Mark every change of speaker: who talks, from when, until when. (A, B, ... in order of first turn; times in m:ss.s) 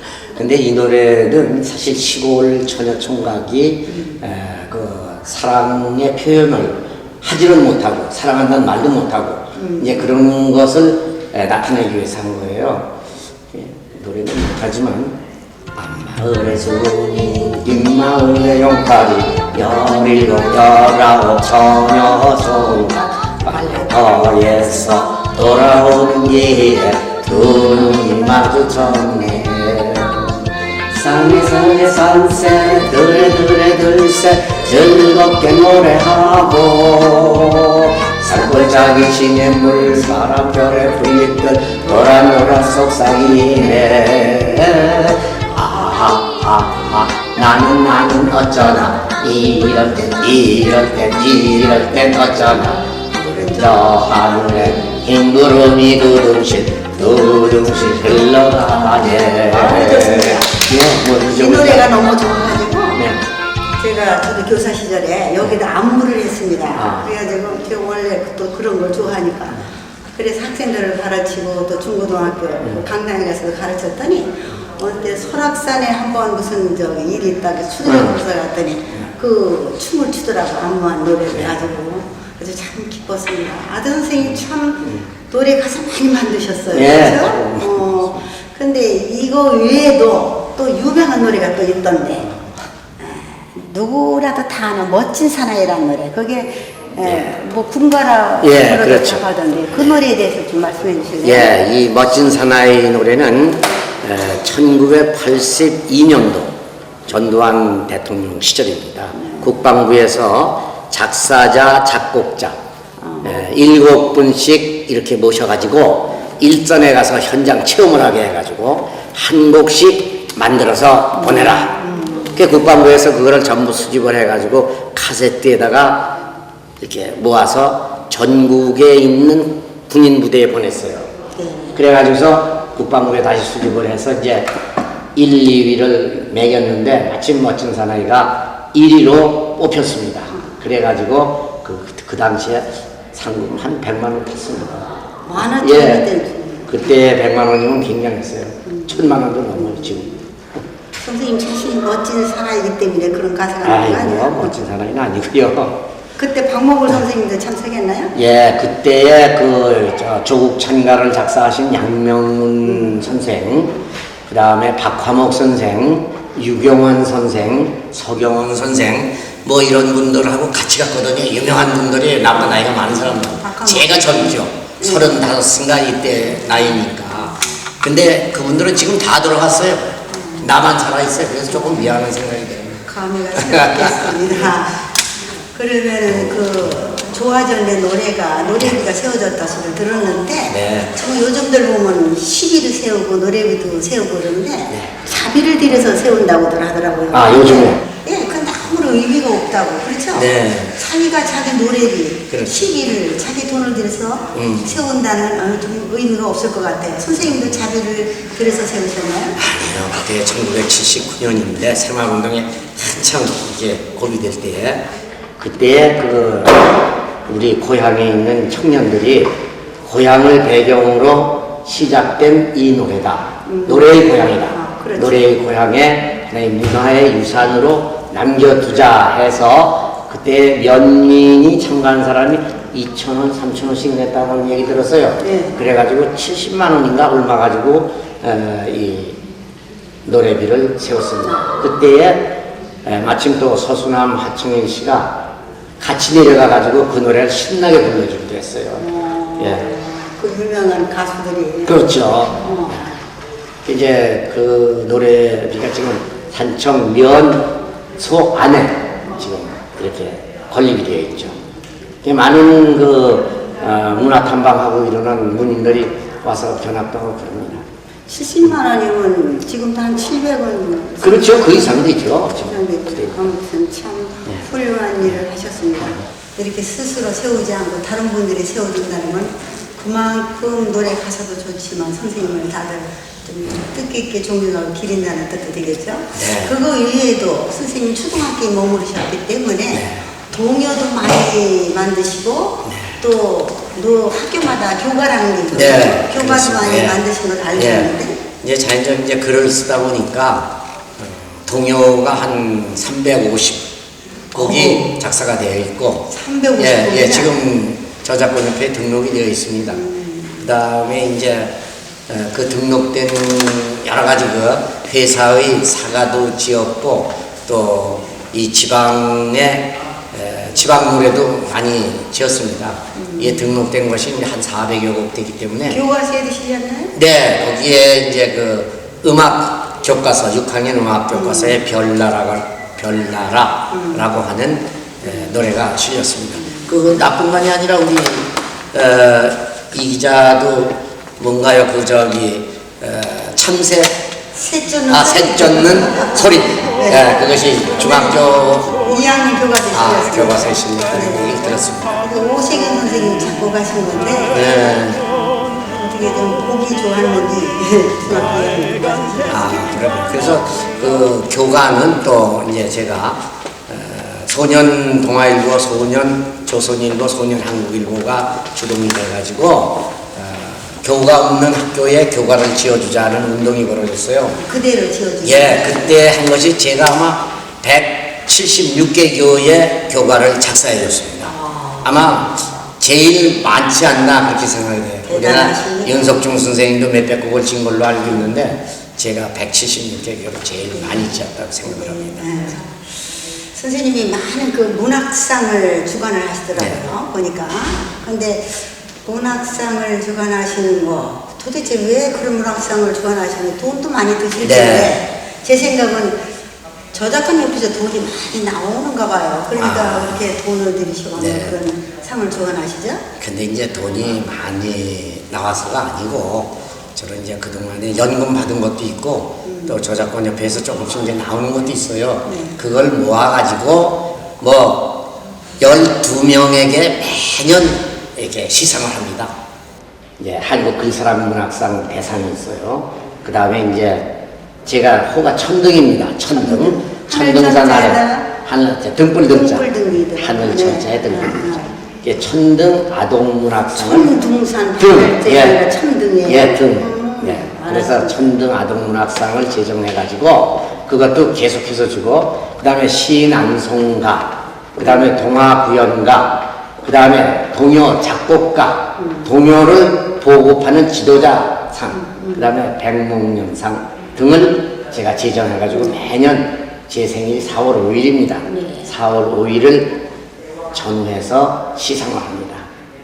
0:00.3-0:12.9 A
0:03.9-0:04.2 B
0:09.6-0:10.1 B
0:13.5-0:15.2 A
0:15.7-0:52.8 A
0:23.5-0:24.6 B
0:53.1-0:54.0 B
0:53.3-1:01.9 A
0:57.0-1:03.0 B
1:03.0-1:03.2 A
1:03.8-1:32.3 B
1:06.8-1:07.1 A
1:17.8-1:18.2 A
1:26.7-1:28.2 A
1:33.0-1:41.6 B
1:38.4-1:39.2 A
1:41.2-1:46.6 A
1:47.1-1:52.6 A
1:49.2-1:49.5 B
1:53.0-1:53.4 B
1:53.2-2:01.8 A
2:01.2-2:02.4 B
2:02.4-2:06.2 A
2:06.8-2:11.1 A
2:11.4-2:11.8 B
2:11.8-2:14.5 A
2:15.2-2:26.1 A
2:25.3-2:26.9 B
2:26.7-2:30.1 A
2:29.6-2:30.1 B
2:30.9-2:34.6 B
2:33.6-2:35.8 A
2:36.2-2:38.1 B
2:38.1-3:04.4 A
2:42.7-2:43.0 B
2:53.2-2:55.2 B
3:00.1-3:00.5 B
3:01.5-3:01.9 B
3:02.8-3:04.9 B
3:05.5-3:29.4 B
3:06.1-3:06.4 A
3:10.5-3:11.0 A
3:17.1-3:17.8 A
3:20.1-3:20.8 A
3:24.3-3:24.8 A
3:29.4-3:34.9 A
3:35.4-3:59.2 A
3:43.5-3:45.3 B
3:55.2-3:55.6 B
4:00.0-4:05.2 A
4:01.2-4:01.6 B
4:05.8-4:08.9 A
4:08.8-4:13.0 B
4:09.4-4:09.7 A
4:11.7-4:12.6 A
4:13.6-4:21.4 A
4:22.0-4:27.7 A
4:28.1-4:58.2 B
4:31.0-4:33.2 A
4:46.2-4:46.5 A
4:49.7-4:50.1 A
4:52.7-4:53.0 A
4:55.5-4:57.0 A
4:57.5-5:03.7 A
5:04.3-5:09.8 A
5:04.4-5:05.0 B
5:06.1-5:07.4 B
5:09.7-5:10.4 B
5:10.4-5:25.8 A
5:23.0-5:23.4 B
5:25.7-5:27.0 B
5:26.9-5:44.0 A
5:31.1-5:31.6 B
5:33.7-5:34.0 B
5:35.1-5:35.3 B
5:44.4-5:48.2 B
5:44.9-5:48.8 A
5:48.8-5:51.4 B
5:49.7-5:52.0 A
5:52.0-5:54.8 B
5:54.3-5:55.1 A
5:55.6-5:59.8 B
5:59.3-6:14.4 A
6:14.4-6:16.0 B
6:15.2-6:32.4 A
6:21.2-6:22.1 B
6:25.1-6:26.2 B
6:31.6-6:32.8 B
6:33.5-6:46.3 B
6:44.4-6:45.0 A
6:46.9-6:53.1 B
6:49.6-6:50.2 A
6:51.2-6:51.6 A
6:53.2-7:05.1 A
6:59.4-6:59.8 B
7:02.3-7:02.6 B
7:05.6-7:09.3 A
7:10.2-7:14.1 A
7:14.6-7:24.1 A
7:16.3-7:18.3 B
7:19.3-7:21.7 B
7:23.8-7:28.2 B
7:24.8-7:25.6 A
7:26.2-7:50.0 A
7:34.8-7:35.1 B
7:39.0-7:39.3 B
7:41.9-7:42.5 B
7:48.5-7:48.9 B
7:50.7-7:52.7 A